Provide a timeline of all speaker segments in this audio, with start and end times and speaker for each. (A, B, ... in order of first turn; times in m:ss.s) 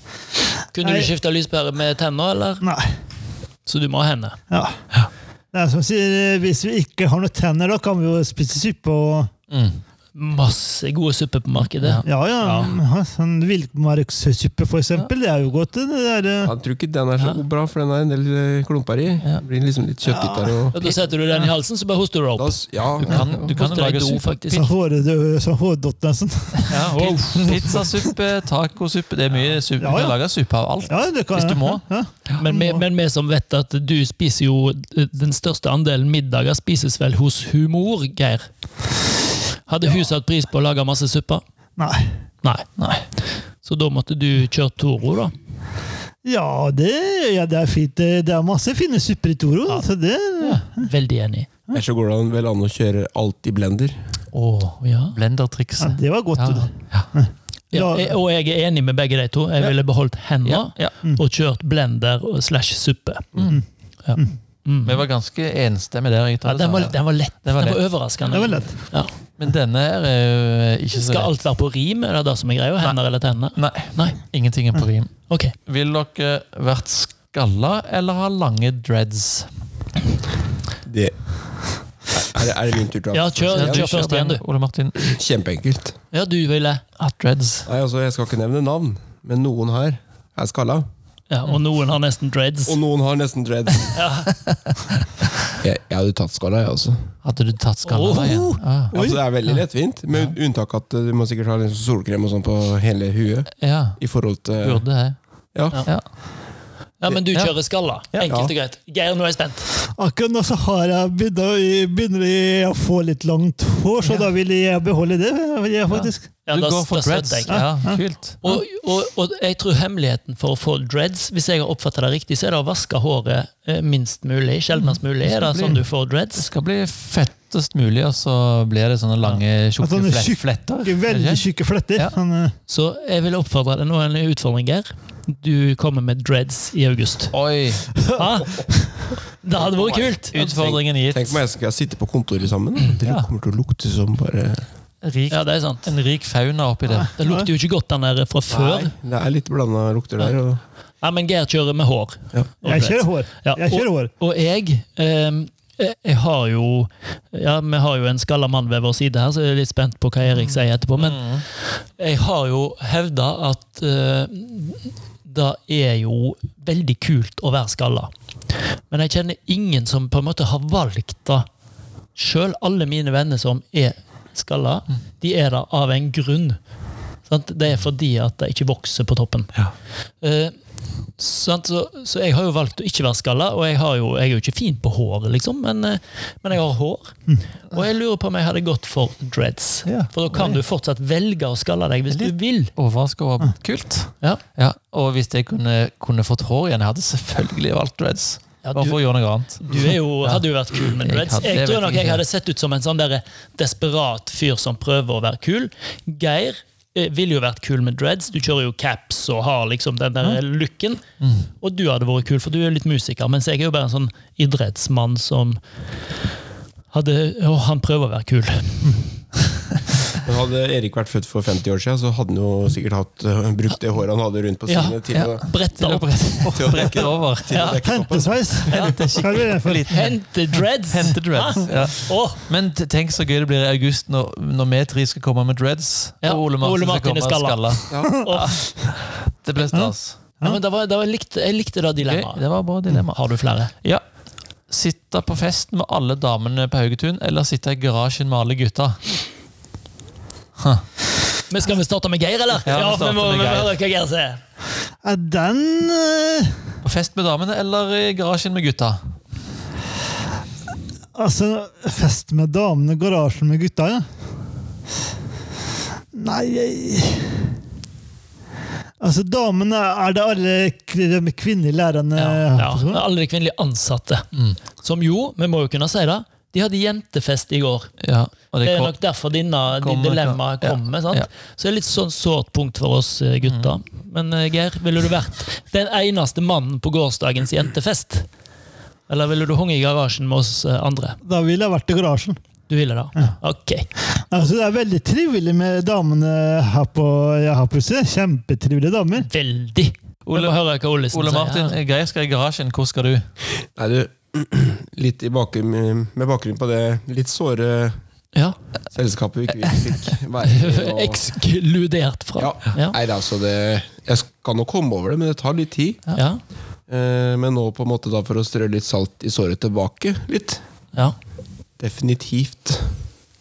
0:00.7-0:02.6 A
0:00.8-0:01.1 B
0:02.6-0:02.9 B
0:03.7-0:04.4 A
0:05.5-0:09.3 B
0:09.5-0:09.8 C
0:10.2-0:12.8 A
0:11.8-0:12.0 C
0:12.0-0:16.5 B
0:16.4-0:20.8 D
0:20.1-0:20.6 B
0:20.7-0:22.6 A
0:22.4-0:23.4 D
0:23.0-0:24.7 C
0:23.1-0:24.7 A
0:24.5-0:28.1 B
0:26.7-0:32.4 C
0:26.7-0:27.6 A
0:29.8-0:30.2 B
0:30.9-0:32.8 B
0:32.4-0:38.5 A
0:39.7-0:41.4 A
0:41.8-0:42.1 B
0:42.4-0:42.7 A
0:42.8-0:43.1 C
0:43.2-0:45.3 A
0:46.2-0:50.9 B
0:50.8-0:51.5 A
0:51.7-0:54.0 D
0:54.3-0:57.1 C
0:54.8-0:55.2 A
0:55.8-0:58.1 B
0:57.7-1:03.3 A
1:00.4-1:00.9 C
1:03.4-1:03.6 C
1:04.0-1:05.0 A
1:04.8-1:07.9 C
1:06.4-1:09.1 A
1:08.3-1:08.8 B
1:09.4-1:11.3 C
1:10.9-1:14.2 A
1:13.5-1:15.1 C
1:15.3-1:15.6 A
1:15.6-1:19.5 C
1:20.8-1:23.9 D
1:23.1-1:24.4 A
1:23.5-1:25.0 C
1:25.0-1:26.0 D
1:26.1-1:26.8 A
1:27.0-1:27.7 C
1:27.7-1:30.9 D
1:31.3-1:32.8 A
1:32.7-1:34.0 D
1:33.9-1:34.3 A
1:34.5-1:35.0 C
1:35.6-1:37.1 D
1:37.2-1:38.9 C
1:37.8-1:38.6 A
1:38.9-1:44.9 D
1:38.9-1:39.2 B
1:43.6-1:44.0 C
1:44.6-1:45.2 C
1:45.5-1:45.9 D
1:45.7-1:46.0 C
1:47.0-1:49.7 A
1:48.2-1:48.5 D
1:50.0-1:56.3 B
1:55.9-1:58.4 C
1:56.4-1:57.7 A
1:57.5-1:58.5 B
1:58.4-2:06.5 A
2:04.8-2:12.2 C
2:09.8-2:12.6 B
2:12.7-2:17.4 A
2:17.3-2:18.0 C
2:18.2-2:20.4 A
2:19.5-2:24.7 D
2:20.3-2:21.4 C
2:23.0-2:23.3 C
2:25.0-2:27.1 C
2:25.3-2:25.9 A
2:27.0-2:27.5 B
2:27.2-2:28.9 A
2:28.5-2:30.6 D
2:31.0-2:51.5 A
2:32.6-2:34.1 B
2:41.0-2:41.4 C
2:52.2-2:56.6 A
2:57.3-2:59.6 A
3:00.2-3:00.6 A
3:01.2-3:12.7 A
3:09.9-3:10.1 C
3:12.1-3:22.2 C
3:18.6-3:31.0 A
3:31.2-3:31.5 C
3:31.6-3:35.6 A
3:36.9-3:39.0 A
3:40.2-3:45.4 D
3:44.7-3:46.9 A
3:45.2-3:47.7 C
3:46.5-3:49.0 D
3:47.5-3:47.8 A
3:47.8-3:49.8 B
3:48.7-4:00.2 C
3:48.7-3:49.2 A
3:49.9-3:52.4 A
3:56.2-3:58.7 A
3:57.9-3:58.2 D
3:59.7-4:00.6 B
4:00.4-4:02.5 A
4:02.0-4:03.3 C
4:03.1-4:03.7 A
4:04.7-4:09.2 C
4:10.6-4:10.9 C
4:11.5-4:14.4 A
4:12.7-4:13.7 C
4:15.0-4:16.6 B
4:16.8-4:19.0 C
4:21.2-4:24.0 B
4:26.1-4:27.4 B
4:29.0-4:33.0 B
4:32.2-4:37.9 A
4:34.3-4:34.6 C
4:38.0-4:39.0 C
4:38.6-4:48.3 A
4:39.8-4:41.3 C
4:43.4-4:43.7 C
4:49.1-4:51.2 A
4:51.2-4:52.4 B
4:52.7-4:53.9 A
4:54.2-4:59.3 B
4:59.2-5:01.8 A
5:00.3-5:03.2 C
5:03.6-5:08.0 D
5:08.9-5:11.2 D
5:10.4-5:13.0 A
5:12.4-5:16.0 D
5:16.2-5:16.4 A
5:16.9-5:20.6 D
5:21.8-5:23.0 D